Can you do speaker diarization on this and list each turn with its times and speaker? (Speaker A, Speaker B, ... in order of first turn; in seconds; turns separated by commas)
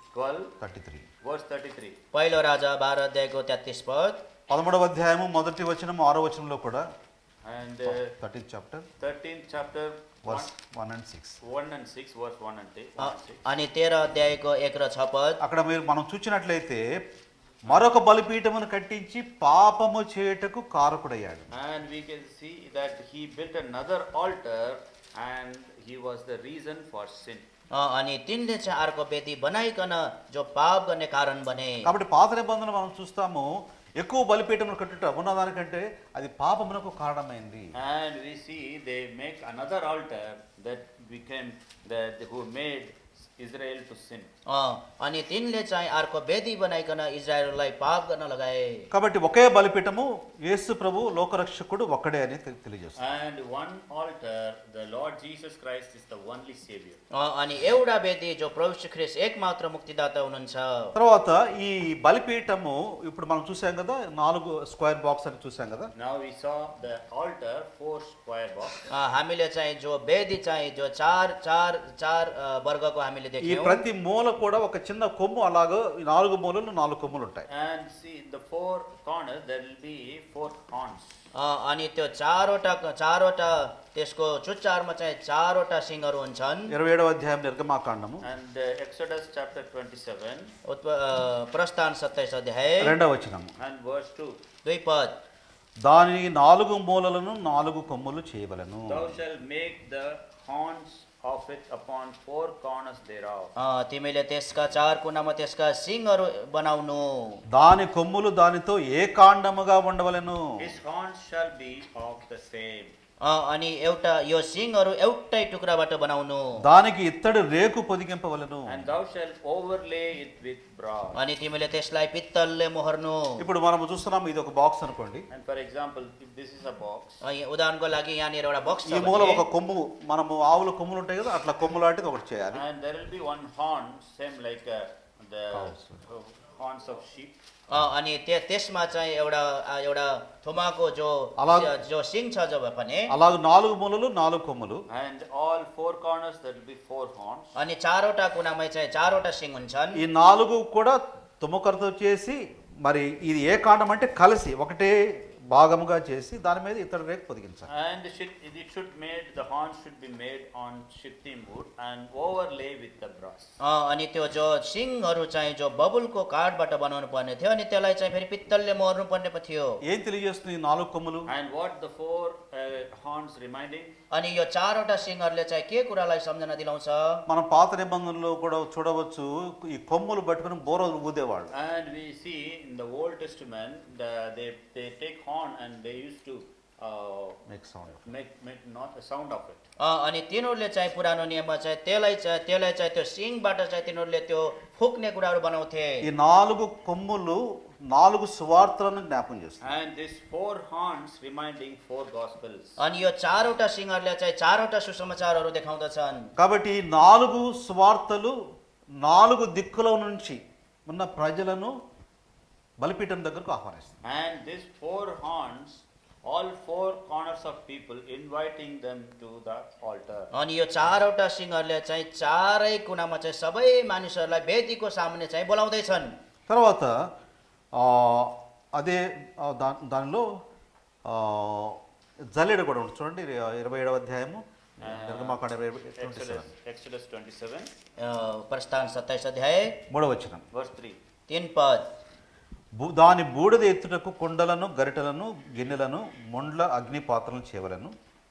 Speaker A: 0.1-0.6, Speaker B: 0.6-1.1, Speaker A: 1.2-2.0, Speaker C: 2.1-4.2, Speaker B: 4.5-6.8, Speaker A: 7.4-8.1, Speaker B: 7.9-8.9, Speaker A: 9.0-10.5, Speaker B: 10.2-11.4, Speaker A: 11.4-13.4, Speaker C: 13.0-15.4, Speaker B: 15.4-16.8, Speaker B: 17.7-21.5, Speaker A: 21.5-27.5, Speaker C: 27.7-31.9, Speaker B: 31.8-37.7, Speaker A: 37.8-44.3, Speaker C: 44.5-48.9, Speaker B: 48.9-53.0, Speaker A: 53.0-57.0, Speaker C: 57.1-60.9, Speaker B: 61.0-65.9, Speaker A: 66.0-68.8, Speaker C: 68.9-73.8, Speaker B: 73.4-77.5, Speaker A: 77.5-81.2, Speaker C: 81.3-86.7, Speaker B: 86.7-88.2, Speaker A: 88.2-90.5, Speaker C: 90.7-93.0, Speaker B: 92.8-93.5, Speaker A: 93.6-94.3, Speaker C: 94.7-95.2, Speaker B: 95.8-99.1, Speaker A: 98.9-103.5, Speaker C: 103.6-107.4, Speaker B: 107.5-110.4, Speaker A: 110.6-112.9, Speaker C: 113.2-116.5, Speaker B: 116.6-118.8, Speaker A: 118.7-121.2, Speaker C: 121.2-123.5, Speaker B: 123.4-125.3, Speaker A: 125.3-127.2, Speaker C: 127.2-129.5, Speaker B: 128.9-132.7, Speaker A: 132.5-137.4, Speaker B: 135.5-136.0, Speaker C: 137.7-143.1, Speaker B: 141.4-141.7, Speaker B: 143.1-144.8, Speaker A: 144.9-147.5, Speaker C: 147.6-150.1, Speaker B: 149.9-154.9, Speaker B: 155.5-157.7, Speaker A: 157.7-163.6, Speaker C: 163.6-169.8, Speaker B: 169.9-171.3, Speaker A: 171.3-174.0, Speaker C: 174.1-177.2, Speaker B: 177.3-181.5, Speaker A: 181.5-187.4, Speaker B: 187.5-188.1, Speaker A: 188.0-189.6, Speaker C: 189.8-196.0, Speaker B: 196.0-199.7, Speaker A: 199.6-202.8, Speaker C: 202.8-206.3, Speaker B: 206.4-208.3, Speaker B: 209.0-211.8, Speaker B: 212.8-213.9, Speaker A: 214.0-220.3, Speaker C: 220.3-226.1, Speaker B: 226.5-227.1, Speaker B: 227.8-230.2, Speaker B: 231.1-231.8, Speaker B: 232.3-236.5, Speaker A: 234.8-235.4, Speaker A: 236.0-237.7, Speaker C: 238.0-239.8, Speaker B: 239.9-240.4, Speaker A: 240.5-241.0, Speaker C: 241.3-241.9, Speaker B: 242.8-247.9